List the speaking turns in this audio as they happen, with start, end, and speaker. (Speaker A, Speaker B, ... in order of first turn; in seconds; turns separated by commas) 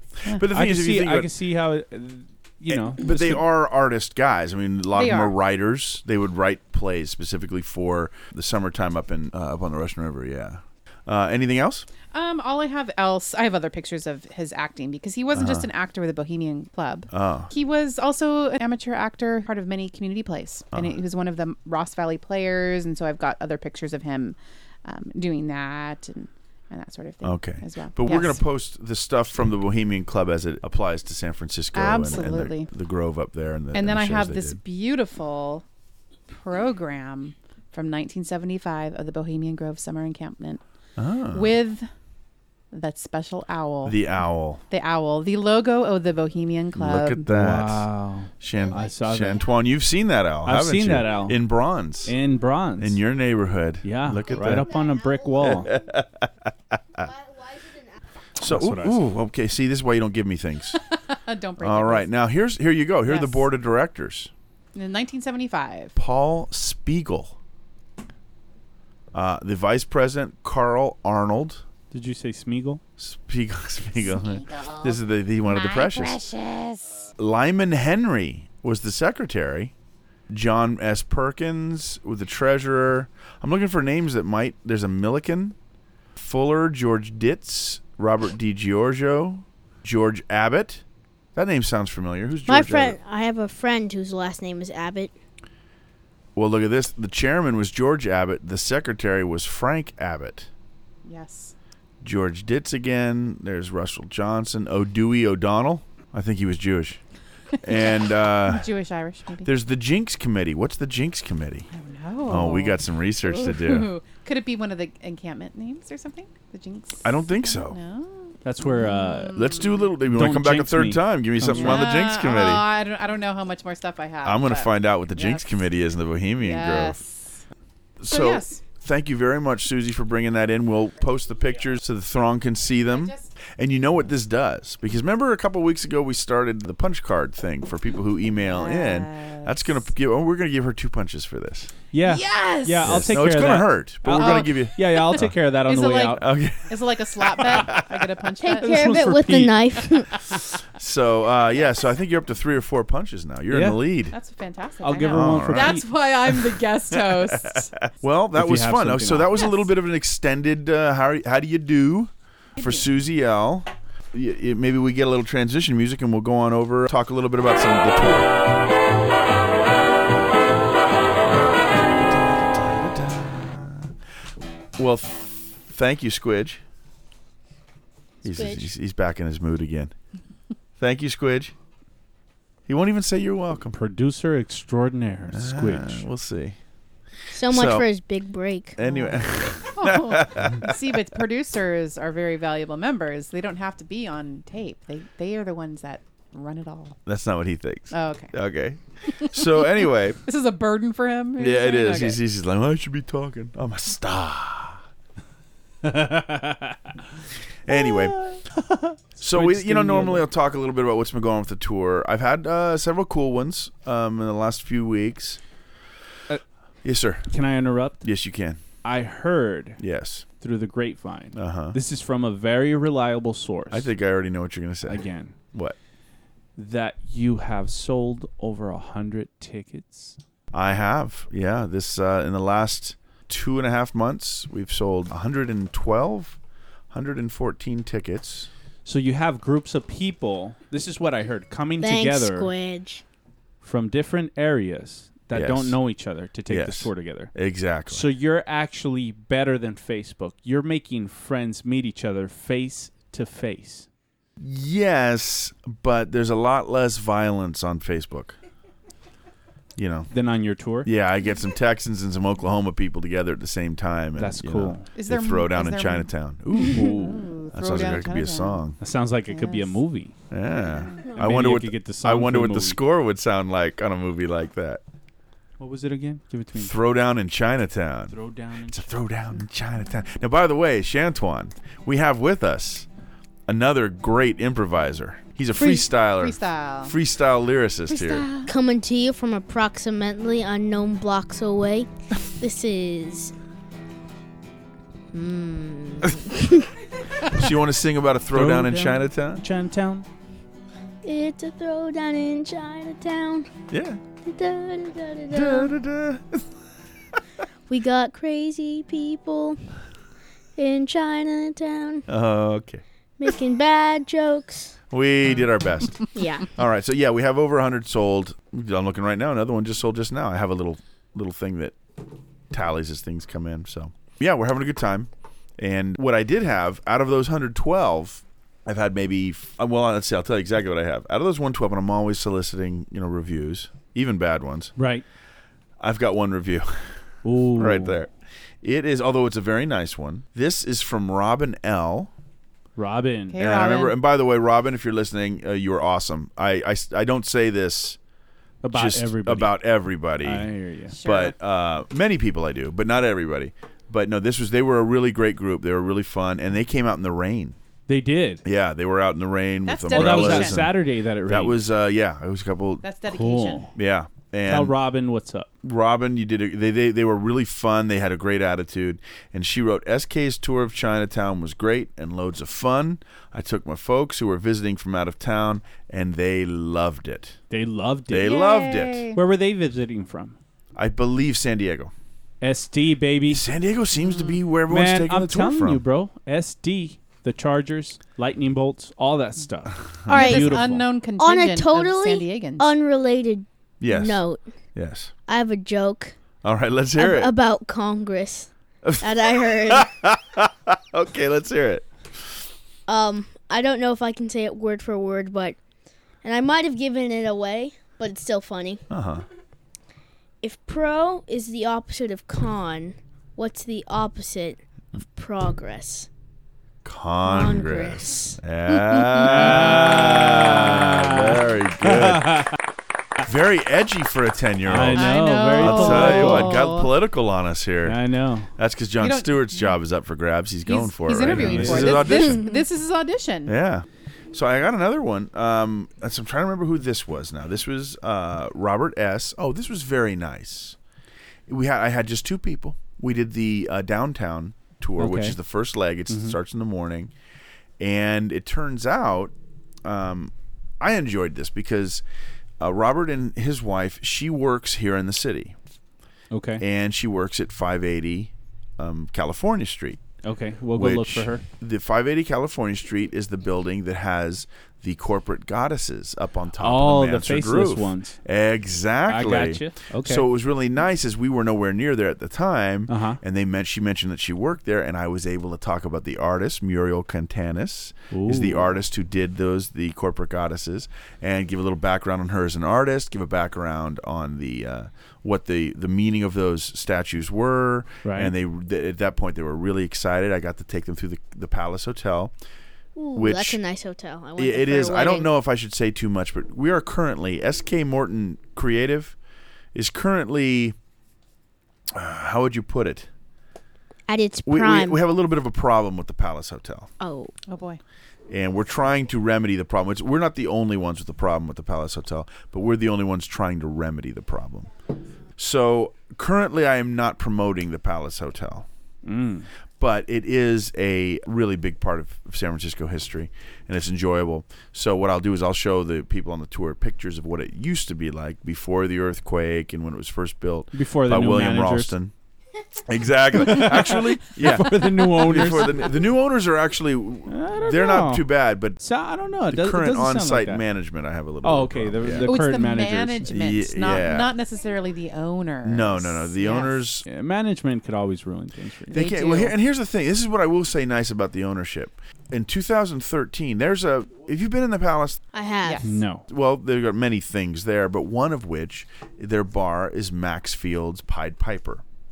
Speaker A: 0.2-1.3, Speaker B: 0.4-3.4, Speaker A: 2.7-11.9, Speaker C: 4.9-5.3, Speaker C: 12.1-28.4, Speaker A: 15.3-15.7, Speaker A: 17.1-17.5, Speaker A: 27.2-34.6, Speaker C: 31.7-32.7, Speaker C: 33.7-35.6, Speaker C: 36.3-40.6, Speaker A: 41.0-41.5, Speaker C: 41.3-41.9, Speaker C: 42.7-44.0, Speaker A: 43.8-44.6, Speaker C: 44.7-47.3, Speaker A: 46.7-47.9, Speaker B: 47.3-49.5, Speaker A: 48.4-52.1, Speaker B: 50.4-51.5, Speaker B: 52.0-53.0, Speaker A: 52.8-54.8, Speaker B: 53.8-55.7, Speaker A: 55.4-57.1, Speaker A: 58.4-60.8, Speaker B: 58.4-59.0, Speaker C: 60.8-62.1, Speaker A: 61.6-64.3, Speaker C: 63.0-63.4, Speaker C: 64.7-66.0, Speaker A: 66.0-67.3, Speaker A: 69.1-71.6, Speaker B: 71.9-72.8, Speaker A: 73.0-76.3, Speaker C: 74.2-76.9, Speaker A: 77.2-79.7, Speaker A: 80.3-85.5, Speaker A: 86.2-90.8, Speaker A: 91.3-93.0, Speaker D: 92.5-95.1, Speaker A: 96.3-100.5, Speaker C: 101.0-101.5, Speaker A: 102.0-107.0, Speaker A: 107.6-108.7, Speaker C: 108.4-109.5, Speaker A: 109.4-111.7, Speaker C: 111.7-119.8, Speaker A: 112.2-113.9, Speaker A: 117.0-117.8, Speaker B: 118.4-119.4, Speaker A: 119.3-122.7, Speaker B: 120.0-121.9, Speaker C: 121.5-125.5, Speaker A: 124.2-127.0, Speaker C: 126.4-127.4, Speaker A: 128.0-141.7, Speaker C: 128.1-128.6, Speaker C: 132.8-133.3, Speaker C: 138.5-139.8, Speaker B: 141.9-146.3, Speaker C: 142.0-143.1, Speaker A: 142.8-145.3, Speaker C: 144.2-148.8, Speaker A: 146.1-148.1, Speaker D: 148.4-150.1, Speaker B: 148.6-150.0, Speaker A: 150.7-154.1, Speaker B: 153.5-153.8, Speaker C: 154.1-157.7, Speaker B: 154.8-155.8, Speaker A: 155.1-155.8, Speaker A: 157.1-168.3, Speaker B: 158.3-159.4, Speaker C: 162.6-162.8, Speaker A: 171.8-173.9, Speaker A: 174.8-176.6, Speaker A: 178.2-179.9, Speaker D: 178.2-178.7, Speaker A: 180.8-181.5, Speaker A: 182.7-183.8, Speaker B: 183.7-186.1, Speaker A: 185.3-186.6, Speaker D: 187.3-188.8, Speaker A: 187.4-187.8, Speaker A: 188.8-190.7, Speaker C: 188.8-197.0, Speaker A: 197.1-200.2, Speaker C: 197.9-198.3, Speaker C: 200.2-202.2, Speaker A: 201.4-204.8, Speaker B: 205.8-206.8, Speaker A: 207.7-208.2, Speaker B: 207.7-210.2, Speaker A: 209.2-215.4, Speaker A: 216.8-217.3, Speaker B: 217.3-218.1, Speaker A: 218.0-218.6, Speaker B: 218.8-219.8, Speaker A: 219.8-220.2, Speaker B: 220.4-223.9, Speaker A: 221.3-221.8, Speaker A: 223.7-225.8, Speaker B: 224.8-225.3, Speaker B: 226.6-230.2, Speaker A: 230.5-236.4, Speaker A: 236.9-238.5, Speaker B: 238.8-242.5, Speaker D: 241.8-243.0, Speaker B: 243.6-247.3, Speaker A: 245.3-245.8, Speaker A: 246.5-248.1, Speaker B: 247.9-253.9, Speaker A: 254.4-258.4, Speaker A: 259.8-260.1, Speaker B: 260.1-260.9, Speaker A: 260.8-267.0, Speaker B: 264.2-264.9, Speaker C: 264.9-268.6, Speaker B: 266.7-267.3, Speaker A: 267.5-268.8, Speaker B: 268.8-270.1, Speaker C: 269.3-269.8, Speaker A: 270.3-274.8, Speaker C: 270.7-271.0, Speaker B: 271.1-272.8, Speaker B: 275.6-276.7, Speaker A: 276.5-278.1, Speaker B: 278.1-278.9, Speaker A: 278.7-282.9, Speaker A: 283.5-288.2, Speaker C: 285.6-286.9, Speaker C: 287.9-288.5, Speaker D: 288.5-293.3, Speaker D: 295.1-296.7, Speaker A: 297.2-299.4, Speaker B: 298.3-300.1, Speaker D: 301.0-303.5, Speaker A: 303.7-304.0, Speaker D: 304.2-305.7, Speaker A: 305.3-306.5, Speaker D: 307.7-309.6, Speaker D: 310.6-312.1, Speaker A: 312.1-312.8, Speaker D: 313.2-314.7, Speaker A: 314.9-321.8, Speaker D: 316.1-316.5, Speaker A: 322.5-334.7, Speaker B: 334.8-335.0, Speaker A: 335.8-337.0, Speaker B: 337.2-338.0, Speaker A: 337.6-338.1, Speaker A: 338.6-342.1, Speaker B: 342.8-343.4, Speaker C: 343.3-344.0, Speaker A: 343.4-348.0, Speaker B: 348.6-349.6, Speaker A: 348.7-357.6, Speaker B: 350.2-350.9, Speaker C: 350.9-351.4, Speaker B: 357.9-358.4, Speaker A: 358.4-362.8, Speaker C: 359.6-360.7, Speaker B: 359.9-361.6, Speaker C: 362.8-363.7, Speaker B: 363.1-363.7, Speaker A: 363.7-364.7, Speaker B: 364.4-365.5, Speaker A: 365.6-377.4, Speaker B: 377.5-378.3, Speaker A: 378.1-379.1, Speaker D: 378.3-379.0, Speaker C: 378.5-378.9, Speaker B: 379.1-380.4, Speaker A: 380.8-381.9, Speaker B: 382.4-383.4, Speaker A: 383.3-385.8, Speaker C: 384.1-384.3, Speaker B: 384.7-390.8, Speaker C: 390.1-392.7, Speaker D: 390.1-390.6, Speaker D: 391.2-394.5, Speaker A: 393.8-394.2, Speaker A: 394.7-395.1, Speaker D: 395.3-396.1, Speaker A: 396.4-397.3, Speaker D: 397.0-399.9, Speaker A: 398.8-402.4, Speaker D: 402.9-405.6, Speaker D: 406.2-408.8, Speaker A: 408.9-409.2, Speaker D: 410.4-416.1, Speaker A: 416.8-422.5, Speaker D: 417.2-419.3, Speaker B: 419.2-422.6, Speaker A: 423.2-428.0, Speaker B: 424.7-426.6, Speaker C: 424.9-426.9, Speaker B: 427.8-428.5, Speaker A: 428.6-432.5, Speaker C: 429.0-429.7, Speaker C: 430.6-433.5, Speaker B: 431.3-432.0, Speaker A: 433.5-440.8, Speaker A: 441.5-447.1, Speaker B: 445.0-445.4, Speaker B: 446.1-446.4, Speaker A: 447.8-449.3, Speaker A: 449.8-452.0, Speaker A: 452.6-455.6, Speaker B: 456.3-456.6, Speaker A: 456.6-460.0, Speaker B: 460.2-461.4, Speaker A: 460.7-492.3, Speaker B: 466.6-468.2, Speaker B: 469.1-470.2, Speaker B: 472.9-473.2, Speaker B: 478.1-478.7, Speaker B: 488.0-488.3, Speaker D: 492.9-495.3, Speaker A: 493.1-493.6, Speaker A: 494.4-499.1, Speaker A: 499.7-500.8, Speaker A: 501.9-503.1, Speaker D: 504.1-505.0, Speaker A: 504.4-506.9, Speaker D: 507.0-507.3, Speaker C: 507.5-507.8, Speaker A: 508.3-514.7, Speaker A: 515.4-518.7, Speaker B: 519.0-519.5, Speaker A: 519.8-532.1, Speaker B: 530.7-531.9, Speaker A: 532.8-538.8, Speaker B: 533.4-536.0, Speaker B: 537.3-538.3, Speaker B: 538.8-540.6, Speaker A: 539.5-542.3, Speaker B: 541.4-543.3, Speaker C: 542.2-546.8, Speaker A: 543.3-544.3, Speaker A: 545.6-547.0, Speaker B: 547.1-549.0, Speaker A: 548.9-555.2, Speaker C: 548.9-549.5, Speaker D: 555.3-555.9, Speaker C: 555.6-555.9, Speaker B: 555.8-556.2, Speaker A: 556.3-561.8